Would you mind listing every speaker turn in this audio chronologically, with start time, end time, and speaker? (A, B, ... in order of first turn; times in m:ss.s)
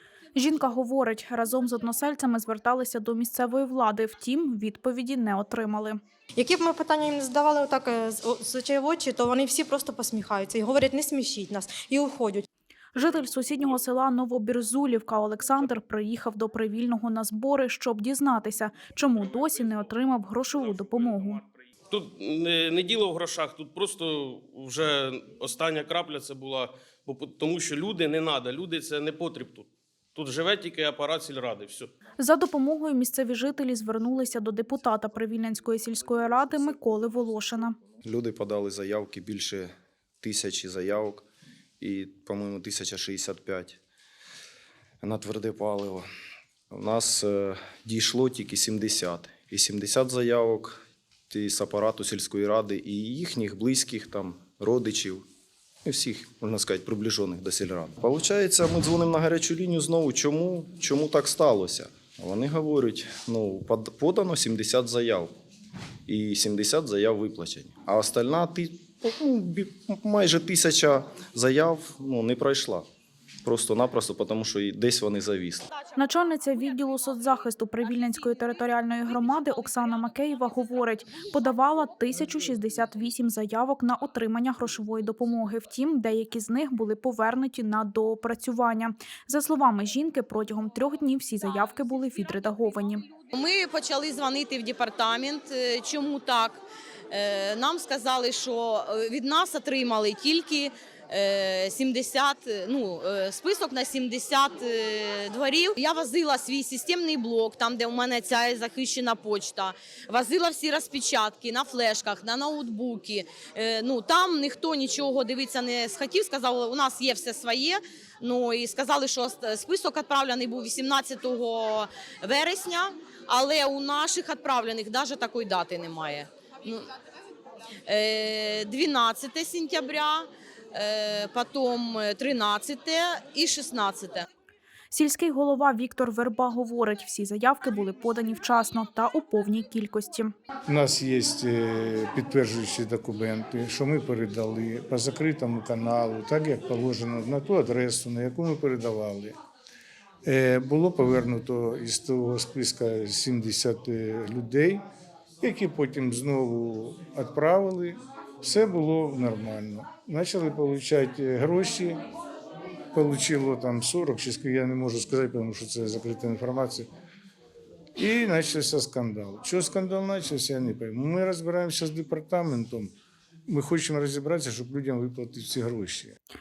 0:00.4-0:06.0 A
0:06.4-0:12.4 B
0:12.9-0:21.4 A
0:19.4-0:19.8 C
0:20.7-0:21.3 C
0:21.9-0:31.9 C
0:32.2-0:37.8 A
0:38.0-0:39.7 D
0:40.2-0:41.2 D
0:41.8-0:43.8 D
0:45.0-0:46.0 D
0:46.7-0:50.7 D
0:51.3-0:55.2 D
0:55.9-1:05.3 D
1:06.1-1:12.8 D
1:13.4-1:15.6 D
1:16.0-1:33.0 A
1:33.3-2:06.9 E
2:07.9-2:14.2 E
2:14.9-2:20.3 A
2:20.7-2:29.3 F
2:30.2-2:34.8 F
2:35.4-2:42.0 F
2:42.9-2:46.9 F
2:48.0-2:52.9 F
2:53.5-2:56.1 F